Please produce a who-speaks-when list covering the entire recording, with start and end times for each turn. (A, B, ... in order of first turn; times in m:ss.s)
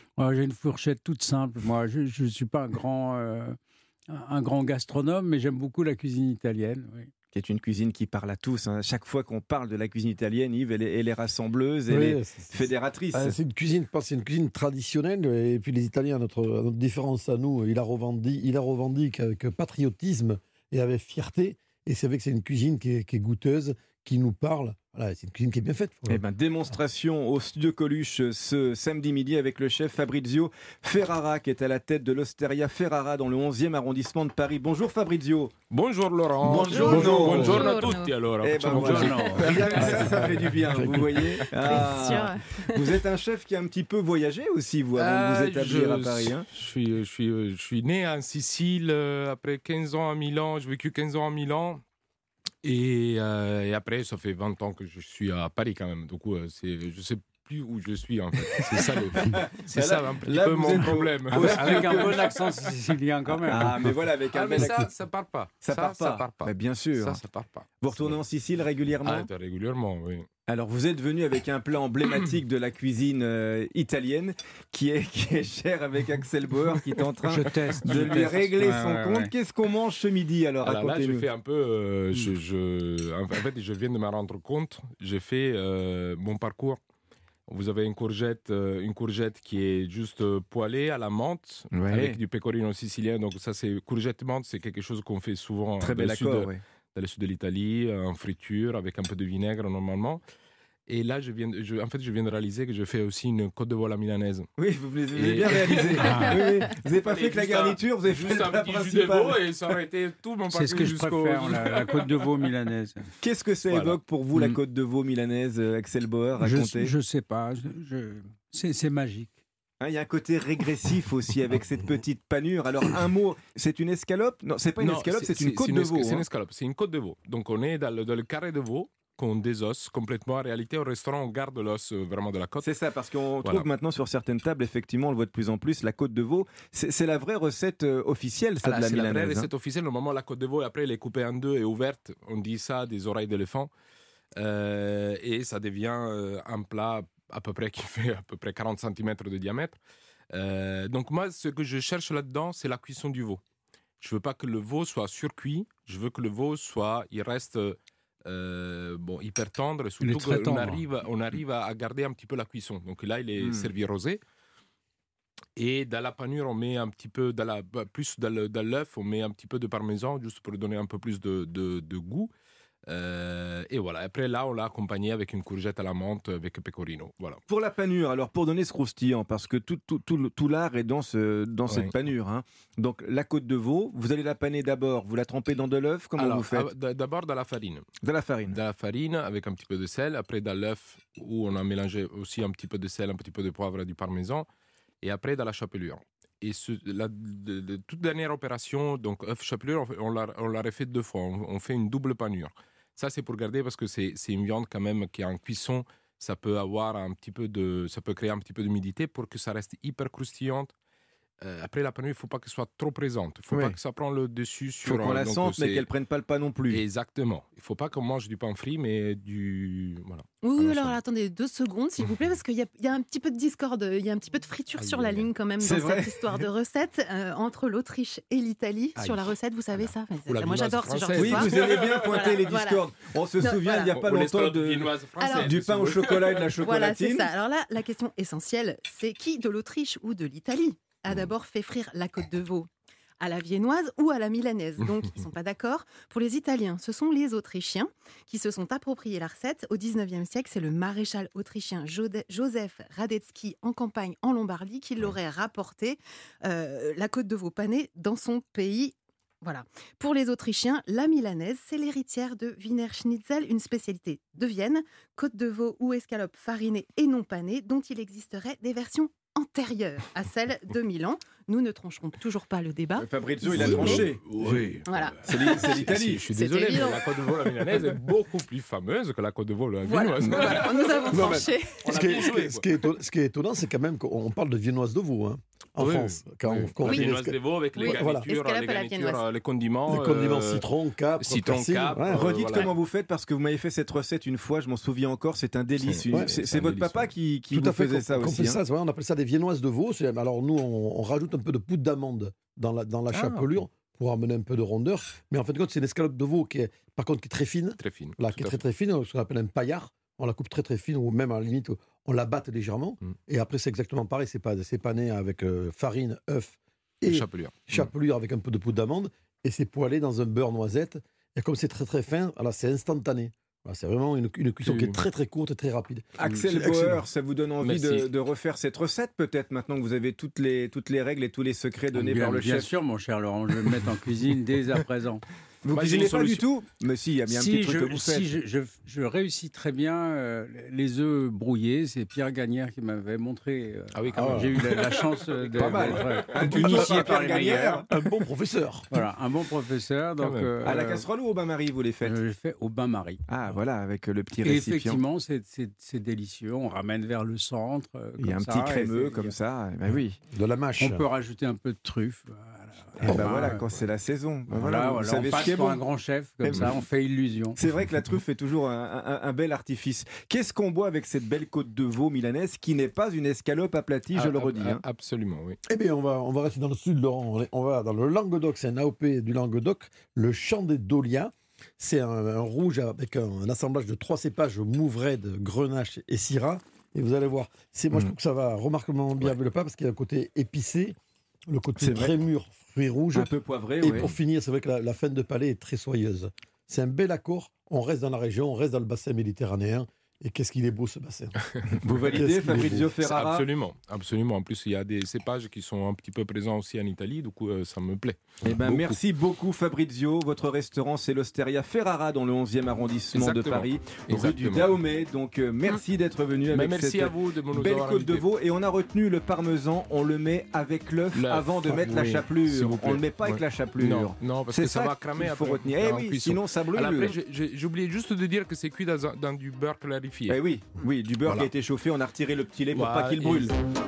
0:00.2-0:03.6 A
0:04.1-0:07.1 A
0:07.3-0:13.4 B
0:11.9-0:26.2 C
0:26.1-0:35.5 B
0:35.7-0:40.0 D
0:36.4-0:37.7 B
0:36.5-0:37.6 C
0:36.5-0:38.1 E
0:38.4-0:46.5 B
0:38.7-0:39.9 A
0:39.6-0:41.3 C
0:41.6-0:42.9 E
0:45.0-0:51.8 D
0:52.6-1:02.1 D
0:58.8-1:02.2 B
1:00.7-1:03.9 A
1:03.4-1:04.8 B
1:04.3-1:08.2 D
1:05.6-1:07.2 B
1:07.8-1:09.3 B
1:09.0-1:10.3 D
1:10.5-1:21.3 B
1:17.2-1:19.3 A
1:20.6-1:26.8 D
1:27.5-1:40.2 D
1:31.7-1:32.2 B
1:35.8-1:36.6 B
1:40.9-1:44.5 D
1:44.6-1:49.4 B
1:45.1-1:46.3 D
1:46.0-1:46.4 A
1:46.9-1:52.3 D
1:50.5-1:53.0 A
1:53.2-1:56.9 B
1:53.7-1:54.0 D
1:56.4-1:59.4 A
1:59.8-2:06.2 B
2:04.8-2:12.7 D
2:12.6-2:19.5 B
2:18.6-2:23.7 D
2:24.4-2:29.8 D
2:30.3-2:33.4 D
2:34.0-2:44.2 D
2:40.0-2:40.8 A
2:43.4-2:43.7 B
2:45.6-2:52.3 D
2:52.9-2:57.4 D
2:57.5-3:06.7 B
3:01.7-3:01.9 D
3:06.2-3:07.8 D
3:08.0-3:08.6 B
3:08.5-3:14.5 D
3:15.0-3:30.7 D
3:31.4-3:35.9 D
3:33.5-3:33.8 B
3:34.8-3:36.8 B
3:36.7-3:41.0 D
3:40.4-3:52.8 E
3:45.6-3:46.5 B
3:50.2-3:52.1 D
3:51.2-3:57.3 B
3:53.4-3:53.9 E
3:53.8-3:56.5 D
3:55.2-3:55.6 E
3:56.5-4:02.7 E
4:03.2-4:34.1 E
4:33.0-4:34.2 B
4:33.4-4:42.6 D
4:34.8-4:35.2 E
4:35.2-4:36.2 B
4:36.3-4:37.8 E
4:39.8-4:41.8 E
4:41.1-4:48.3 C
4:45.8-4:52.7 D
4:46.8-4:47.1 E
4:47.7-4:49.2 E
4:49.9-4:52.3 C
4:52.1-4:58.6 B
4:55.8-4:57.1 D
4:57.5-5:27.0 C
5:03.1-5:03.6 D
5:07.8-5:08.6 D
5:17.1-5:17.9 D
5:24.6-5:25.0 D
5:26.2-5:32.7 B
5:27.6-5:28.1 D
5:31.9-5:35.2 A
5:35.6-5:38.3 B
5:35.7-5:36.4 D
5:37.3-5:47.9 A
5:43.9-5:46.5 D
5:44.1-5:44.7 C
5:45.5-5:47.9 B
5:46.6-5:47.1 C
5:47.9-5:48.9 C
5:48.9-5:51.1 A
5:50.2-5:50.5 D
5:50.6-5:52.2 B
5:52.0-5:53.3 A
5:53.3-5:55.0 B
5:54.4-5:59.4 A
5:58.2-6:00.2 B
6:00.3-6:01.0 C
6:00.8-6:03.7 A
6:03.0-6:05.8 B
6:03.0-6:03.4 C
6:04.5-6:07.6 A
6:06.4-6:06.8 B
6:07.5-6:14.8 B
6:14.1-6:15.6 D
6:15.7-6:31.0 C
6:31.5-6:43.0 C
6:31.8-6:32.1 B
6:33.1-6:34.1 B
6:41.8-6:43.4 B
6:43.0-6:49.0 D
6:48.4-7:07.1 B
6:53.1-6:54.7 D
6:56.5-6:58.3 D
7:01.1-7:10.4 D
7:10.3-7:13.5 B
7:12.7-7:13.5 D